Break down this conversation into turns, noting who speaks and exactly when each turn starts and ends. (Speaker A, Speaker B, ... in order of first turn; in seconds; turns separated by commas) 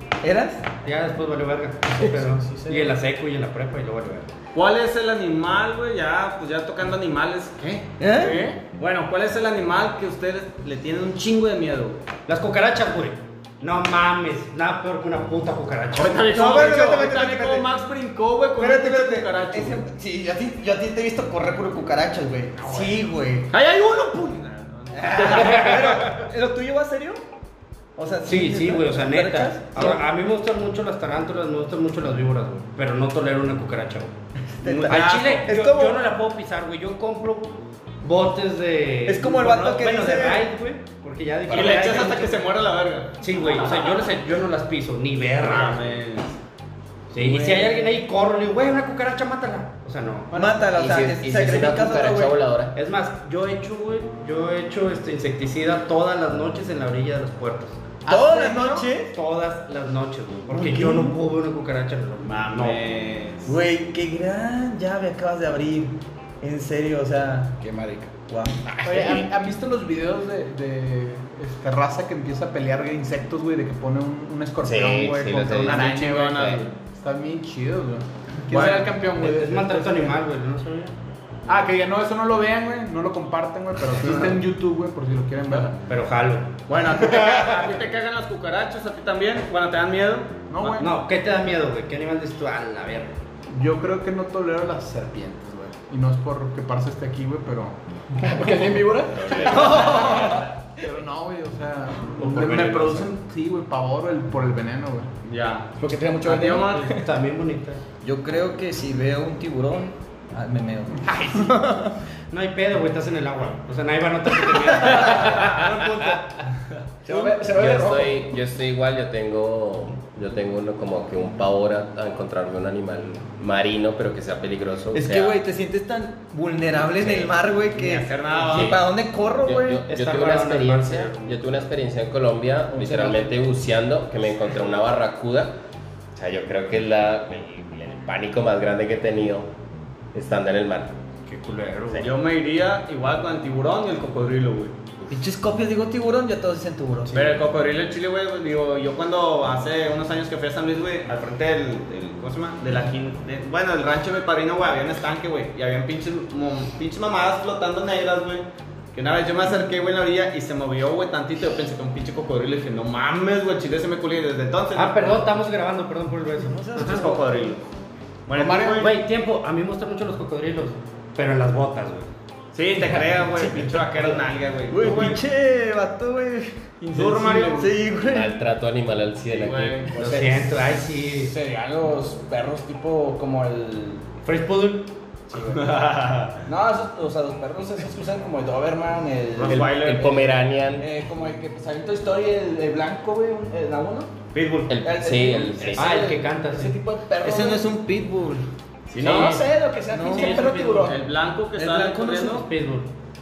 Speaker A: 0.2-0.7, Speaker B: 0.8-4.3, Speaker C: 1.9-2.9, Speaker D: 4.5-7.9, Speaker A: 8.0-8.4, Speaker E: 8.2-8.6, Speaker D: 8.8-12.0, Speaker B: 12.3-16.4, Speaker D: 15.9-19.9, Speaker A: 16.3-17.7, Speaker A: 18.6-23.5, Speaker B: 22.6-22.9, Speaker D: 23.5-25.9, Speaker A: 24.9-27.2, Speaker B: 25.2-25.9, Speaker A: 28.0-30.0, Speaker B: 28.3-34.1, Speaker A: 34.6-36.0, Speaker D: 34.6-35.5, Speaker B: 34.9-42.5, Speaker A: 39.0-40.5, Speaker F: 41.5-41.8, Speaker D: 41.5-43.1, Speaker B: 43.2-45.9, Speaker D: 45.4-46.4, Speaker B: 47.1-50.4, Speaker A: 47.2-47.7, Speaker E: 50.3-50.6, Speaker A: 50.3-52.3, Speaker F: 50.7-52.7, Speaker B: 52.7-57.8, Speaker E: 58.0-58.9, Speaker A: 58.1-59.1, Speaker B: 59.1-62.8, Speaker A: 60.5-61.2, Speaker D: 62.2-63.5, Speaker A: 63.5-67.5, Speaker C: 67.6-69.2, Speaker E: 68.8-80.2, Speaker F: 74.6-76.0, Speaker D: 75.5-76.7, Speaker D: 78.5-78.9, Speaker B: 79.2-80.9, Speaker E: 81.5-85.7, Speaker D: 84.1-84.4, Speaker B: 85.9-86.6, Speaker D: 86.7-90.8, Speaker E: 90.5-90.9, Speaker B: 90.8-93.1, Speaker E: 93.5-98.6, Speaker C: 98.2-100.2, Speaker D: 99.5-100.3, Speaker E: 99.5-105.1, Speaker A: 99.6-100.3, Speaker B: 102.2-103.0, Speaker D: 105.3-105.7, Speaker C: 105.8-107.0, Speaker D: 106.2-106.8, Speaker B: 106.7-107.8, Speaker A: 108.0-112.0, Speaker E: 111.1-111.5, Speaker B: 112.3-115.5, Speaker A: 114.8-116.3, Speaker C: 117.0-118.2, Speaker A: 117.1-117.4, Speaker F: 117.5-125.4, Speaker A: 124.9-129.8, Speaker F: 127.0-127.3, Speaker D: 127.7-128.8, Speaker F: 129.4-135.6, Speaker B: 129.9-131.6, Speaker B: 132.8-133.3, Speaker F: 136.1-139.5, Speaker F: 140.1-140.9, Speaker B: 141.3-142.1, Speaker D: 142.0-144.7, Speaker A: 145.1-147.1, Speaker D: 147.1-165.3, Speaker B: 164.7-167.1, Speaker A: 166.5-167.3, Speaker D: 166.8-167.6, Speaker D: 168.3-168.9, Speaker E: 168.3-168.9, Speaker B: 168.8-172.1, Speaker D: 172.5-175.2, Speaker A: 172.8-174.0, Speaker A: 174.7-176.6, Speaker E: 176.8-177.8, Speaker D: 176.9-177.7, Speaker A: 177.6-178.4, Speaker F: 178.1-179.9, Speaker D: 179.3-180.0, Speaker B: 179.9-181.3, Speaker C: 180.0-180.5, Speaker C: 181.2-184.1, Speaker B: 184.2-184.9, Speaker C: 185.3-185.8, Speaker D: 185.5-186.4, Speaker C: 186.5-194.1, Speaker D: 189.4-190.2, Speaker F: 189.6-190.9, Speaker D: 194.3-194.8, Speaker F: 194.7-196.0, Speaker C: 194.8-197.7, Speaker B: 195.7-196.8, Speaker A: 197.2-198.4, Speaker D: 198.9-199.4, Speaker C: 198.9-201.0, Speaker A: 199.9-200.5, Speaker B: 200.1-200.9, Speaker D: 200.9-202.5, Speaker A: 201.6-202.4, Speaker B: 202.3-202.9